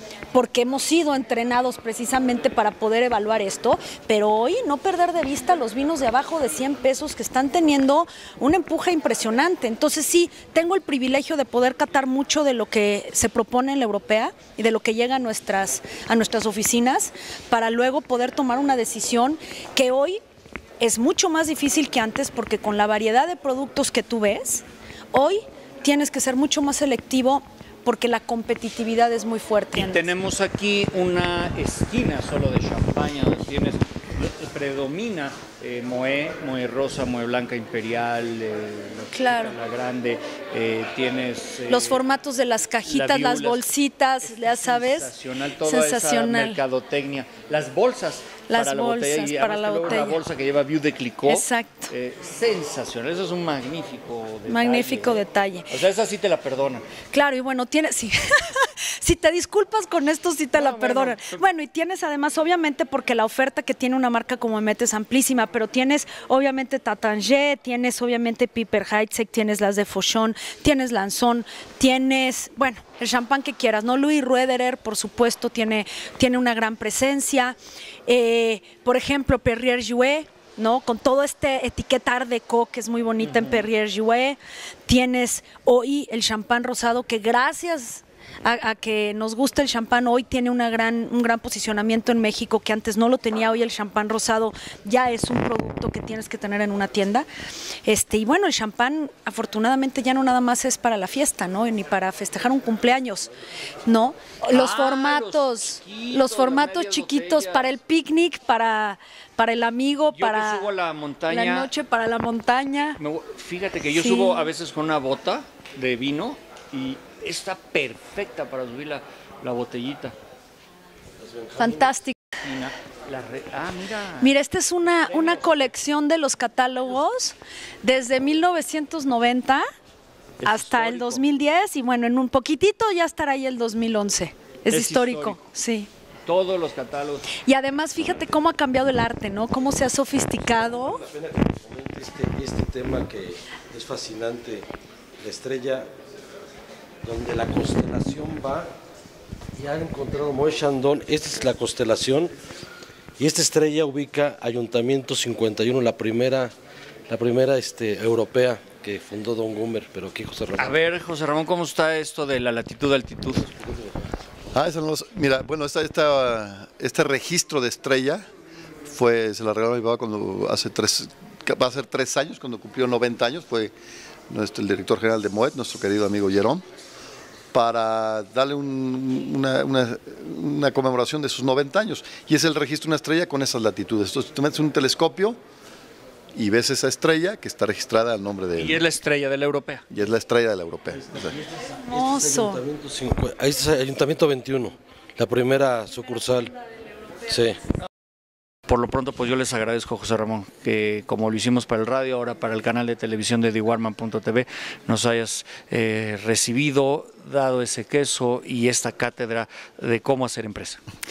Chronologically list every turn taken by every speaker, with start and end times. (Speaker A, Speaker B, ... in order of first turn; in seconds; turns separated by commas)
Speaker A: 0.3-20.2, Speaker A: 20.8-30.1, Speaker B: 29.7-42.0, Speaker A: 39.1-39.5, Speaker A: 41.7-45.1, Speaker B: 42.9-56.9, Speaker A: 45.6-46.6, Speaker A: 48.5-50.2, Speaker A: 51.2-51.9, Speaker A: 54.5-55.7, Speaker A: 57.1-77.5, Speaker B: 60.5-61.4, Speaker A: 78.1-97.3, Speaker A: 97.8-103.3, Speaker A: 103.8-110.7, Speaker B: 104.5-107.8, Speaker B: 110.1-111.7, Speaker A: 111.3-113.0, Speaker B: 113.0-120.1, Speaker A: 113.9-114.5, Speaker C: 121.2-121.9, Speaker A: 121.6-122.2, Speaker B: 122.4-124.3, Speaker A: 124.2-129.7, Speaker B: 124.9-125.7, Speaker B: 130.4-131.2, Speaker A: 130.4-135.9, Speaker B: 134.7-135.4, Speaker B: 136.2-137.3, Speaker A: 137.4-141.0, Speaker C: 140.5-144.7, Speaker C: 145.2-145.9, Speaker C: 147.0-148.7, Speaker C: 149.6-152.3, Speaker C: 153.2-156.5, Speaker C: 157.1-160.8, Speaker B: 160.6-163.5, Speaker C: 163.6-164.0, Speaker D: 164.5-168.2, Speaker D: 168.8-173.7, Speaker D: 174.3-176.6, Speaker D: 177.5-185.4, Speaker D: 186.3-188.8, Speaker B: 188.6-189.8, Speaker D: 189.9-191.3, Speaker C: 191.2-196.5, Speaker A: 191.7-192.6, Speaker C: 197.3-197.6, Speaker B: 198.7-210.8